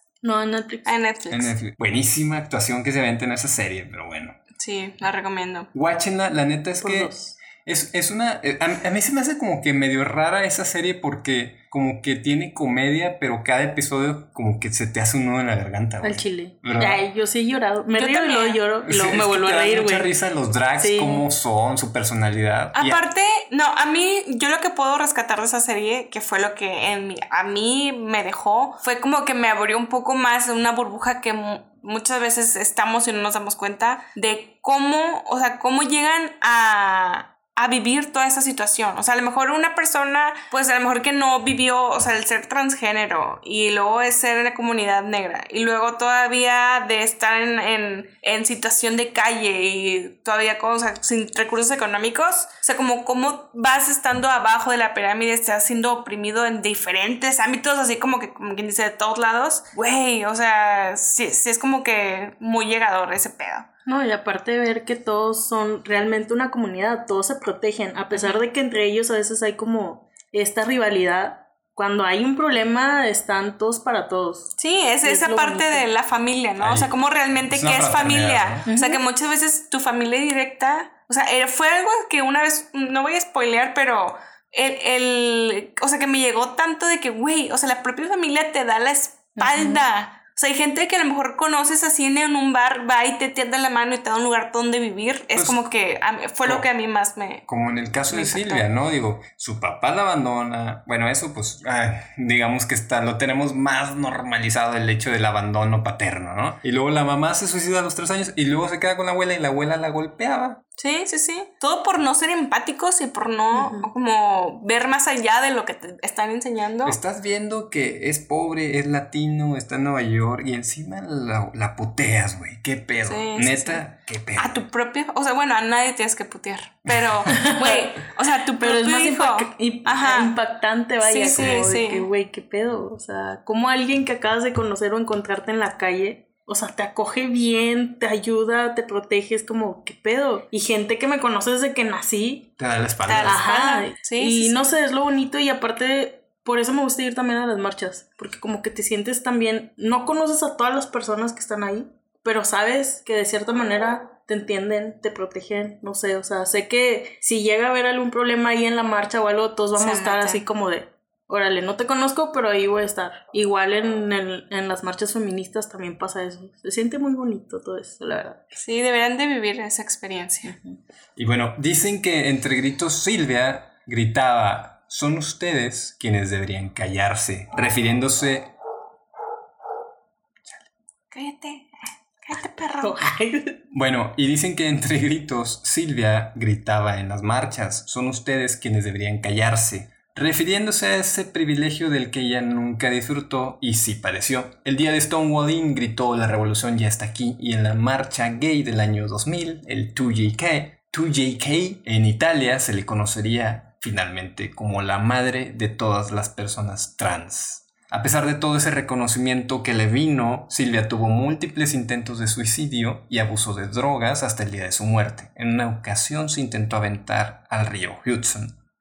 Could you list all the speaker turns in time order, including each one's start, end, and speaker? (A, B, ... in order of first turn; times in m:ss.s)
0:00.2-0:00.9 A
0:00.8-0:01.5 B
0:01.3-0:04.4 C
0:04.6-0:05.7 B
0:05.7-0:17.0 C
0:06.8-0:07.4 A
0:16.0-0:20.1 A
0:18.0-0:18.6 B
0:18.8-0:23.0 C
0:20.8-0:21.2 A
0:22.7-1:03.7 B
1:03.8-1:15.9 A
1:08.1-1:08.4 B
1:14.6-1:37.4 B
1:16.6-1:16.9 C
1:17.4-1:18.7 C
1:18.7-1:19.0 A
1:29.4-1:29.8 A
1:37.5-1:50.6 C
1:38.1-1:38.7 B
1:50.8-1:57.0 B
1:53.5-1:53.9 A
1:56.8-2:04.6 C
2:03.0-2:03.8 B
2:04.4-2:10.4 B
2:07.3-2:07.9 A
2:08.6-2:22.5 A
2:11.0-2:12.1 B
2:11.3-2:11.7 C
2:22.6-2:23.4 C
2:23.0-2:24.6 B
2:23.2-2:48.4 A
2:39.8-2:40.4 B
2:48.5-2:50.5 B
2:50.5-2:50.8 A
2:51.2-2:58.5 C
3:01.1-3:01.7 B
3:02.2-3:03.0 B
3:02.8-3:03.6 A
3:03.7-3:38.5 C